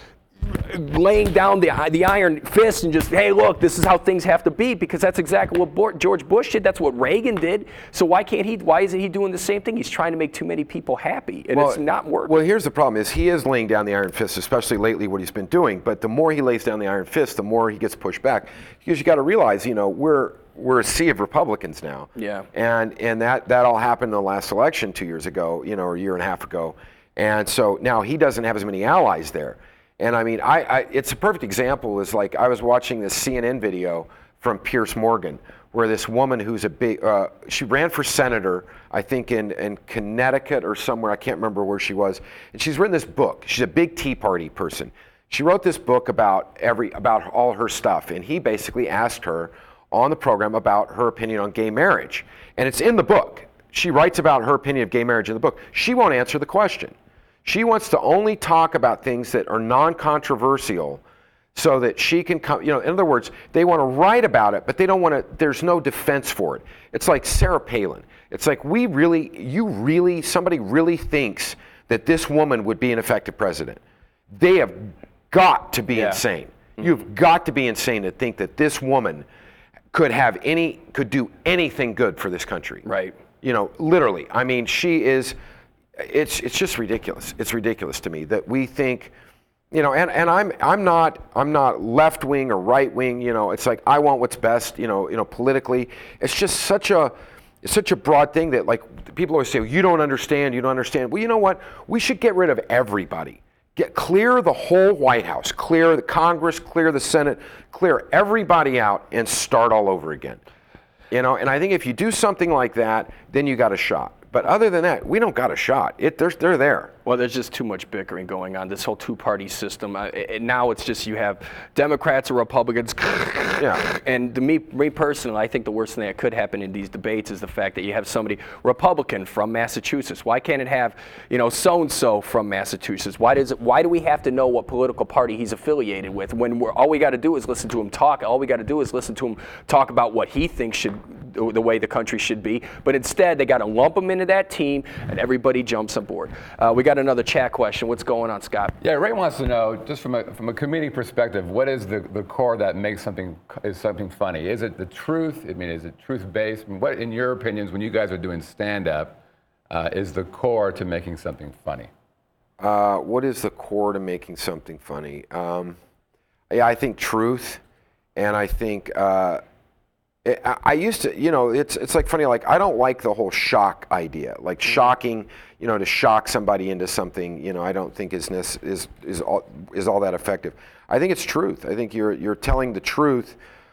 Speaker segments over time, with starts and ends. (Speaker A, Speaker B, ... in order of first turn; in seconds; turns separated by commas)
Speaker A: 0.4-12.4, Speaker B: 11.5-56.9, Speaker A: 22.1-22.5, Speaker B: 57.5-61.0, Speaker B: 61.5-79.3, Speaker A: 75.9-76.2, Speaker B: 79.9-82.8, Speaker A: 82.8-83.2, Speaker B: 83.4-85.3, Speaker B: 86.0-89.1, Speaker B: 89.7-110.4, Speaker B: 111.1-116.9, Speaker A: 117.1-148.8, Speaker B: 123.6-123.9, Speaker C: 148.8-159.2, Speaker C: 159.7-161.9, Speaker B: 162.6-165.8, Speaker B: 166.5-167.6, Speaker B: 168.2-169.4, Speaker B: 170.2-183.4